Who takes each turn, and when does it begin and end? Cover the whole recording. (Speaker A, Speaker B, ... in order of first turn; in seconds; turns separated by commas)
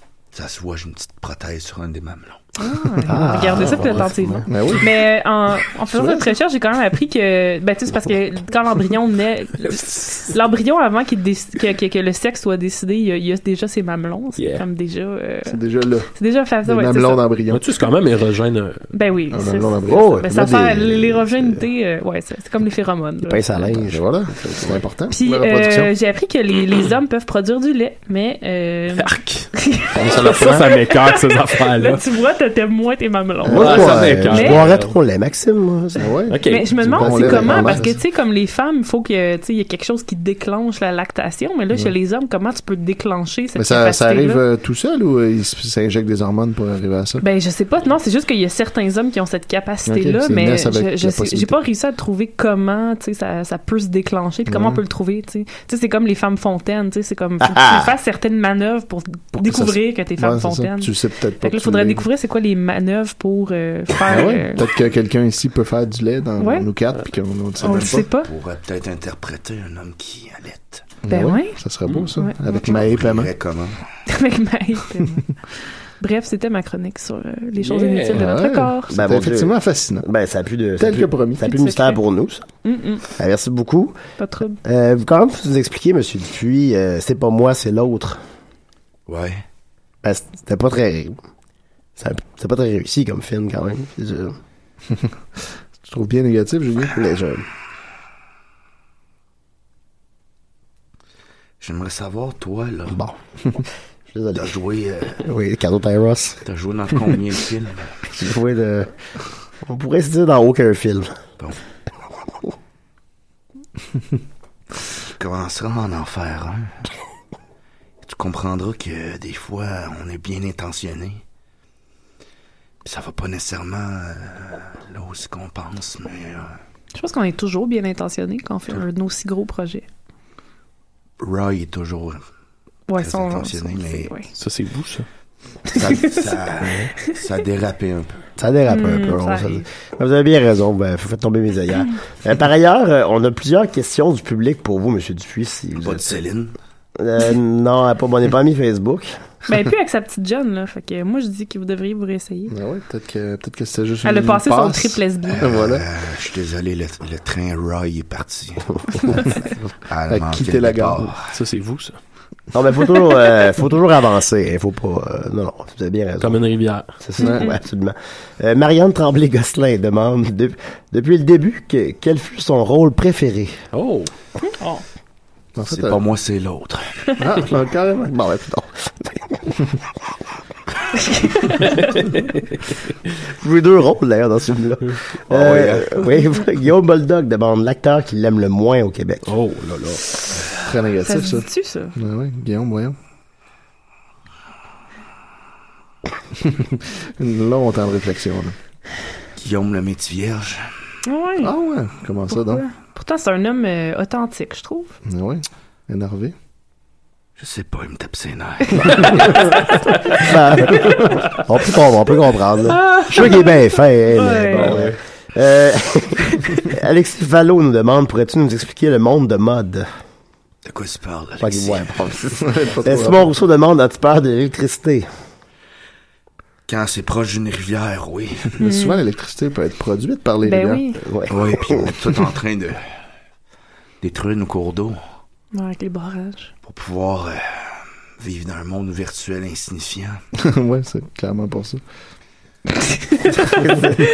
Speaker A: 0.3-2.4, Speaker B: 2.6-15.6, Speaker C: 2.9-5.0, Speaker D: 3.1-3.8, Speaker E: 3.6-4.8, Speaker C: 5.9-6.3, Speaker E: 14.3-14.6, Speaker C: 15.5-16.1, Speaker B: 16.1-17.2, Speaker C: 16.6-17.6, Speaker E: 17.5-18.9, Speaker B: 18.9-23.6, Speaker C: 19.3-21.2, Speaker D: 19.9-21.2, Speaker D: 23.2-24.8, Speaker C: 23.8-25.9, Speaker B: 25.1-34.7, Speaker E: 28.9-29.5, Speaker C: 29.9-30.7, Speaker E: 30.1-32.0, Speaker C: 33.4-34.3, Speaker E: 33.5-34.9, Speaker D: 33.6-36.1, Speaker C: 36.0-38.0, Speaker E: 36.3-37.3, Speaker B: 36.4-44.4, Speaker C: 43.5-47.2, Speaker B: 47.2-64.7, Speaker C: 49.9-51.6, Speaker C: 54.5-54.8, Speaker D: 57.4-57.9, Speaker C: 59.4-62.0, Speaker C: 64.0-68.1, Speaker B: 66.4-66.7, Speaker B: 67.6-68.3, Speaker A: 67.8-70.9, Speaker C: 71.1-73.3, Speaker B: 71.1-71.6, Speaker B: 72.2-72.8, Speaker A: 72.6-73.8, Speaker B: 74.0-75.2, Speaker B: 76.0-78.9, Speaker E: 77.6-78.2, Speaker C: 78.1-80.1, Speaker D: 78.9-82.4, Speaker C: 80.8-81.5, Speaker B: 81.4-82.0, Speaker B: 82.6-83.0, Speaker D: 83.1-84.0, Speaker B: 84.2-84.6, Speaker D: 84.6-88.2, Speaker A: 89.1-89.4, Speaker D: 90.0-91.2, Speaker D: 92.0-94.4, Speaker C: 95.8-97.0, Speaker D: 96.9-97.4, Speaker A: 101.6-103.0, Speaker D: 102.9-104.5, Speaker A: 104.3-105.2, Speaker D: 105.2-106.4, Speaker A: 106.4-108.0, Speaker D: 108.2-108.9, Speaker D: 109.6-111.2, Speaker A: 115.2-116.8, Speaker A: 118.0-121.2, Speaker A: 122.8-126.6, Speaker B: 126.9-129.8, Speaker A: 131.2-132.2, Speaker B: 132.9-134.3, Speaker A: 132.9-134.1, Speaker E: 134.3-135.1, Speaker A: 135.7-138.2, Speaker B: 135.7-136.3, Speaker D: 136.6-136.9, Speaker D: 138.4-146.1, Speaker B: 138.7-139.7, Speaker A: 145.8-146.5, Speaker D: 146.9-149.2, Speaker B: 149.5-152.5, Speaker C: 152.5-155.8, Speaker B: 154.0-155.4, Speaker A: 155.3-161.3, Speaker B: 159.0-159.3, Speaker C: 160.1-161.1, Speaker E: 161.2-162.0, Speaker D: 162.5-166.4, Speaker B: 162.8-163.2, Speaker E: 166.2-166.9, Speaker D: 167.0-173.6, Speaker B: 167.2-167.6, Speaker C: 167.2-167.5, Speaker E: 173.7-174.1, Speaker B: 174.4-174.8, Speaker C: 175.6-176.0, Speaker A: 175.7-176.9, Speaker C: 177.2-178.6, Speaker D: 178.3-179.1, Speaker B: 181.1-181.8, Speaker E: 181.8-182.4, Speaker D: 183.2-189.3, Speaker A: 185.3-186.2, Speaker E: 189.3-190.0, Speaker C: 190.5-192.9, Speaker B: 191.0-191.9, Speaker C: 196.4-198.5, Speaker A: 199.4-200.7, Speaker B: 201.0-201.5, Speaker C: 201.4-202.6, Speaker B: 202.3-204.9, Speaker C: 205.1-206.3, Speaker A: 207.4-209.4, Speaker E: 209.0-210.3, Speaker D: 210.2-219.9, Speaker E: 212.7-213.3, Speaker B: 213.2-214.8, Speaker E: 214.5-215.0, Speaker A: 220.6-221.9, Speaker D: 221.4-225.1, Speaker C: 222.4-223.3, Speaker A: 226.7-228.6, Speaker B: 228.6-229.0, Speaker C: 228.6-230.8, Speaker B: 230.4-231.0, Speaker D: 231.0-231.9, Speaker A: 231.3-232.9, Speaker A: 234.0-235.0, Speaker B: 235.5-236.5, Speaker A: 236.6-240.2, Speaker C: 240.4-241.8, Speaker B: 243.1-243.7, Speaker D: 243.6-244.0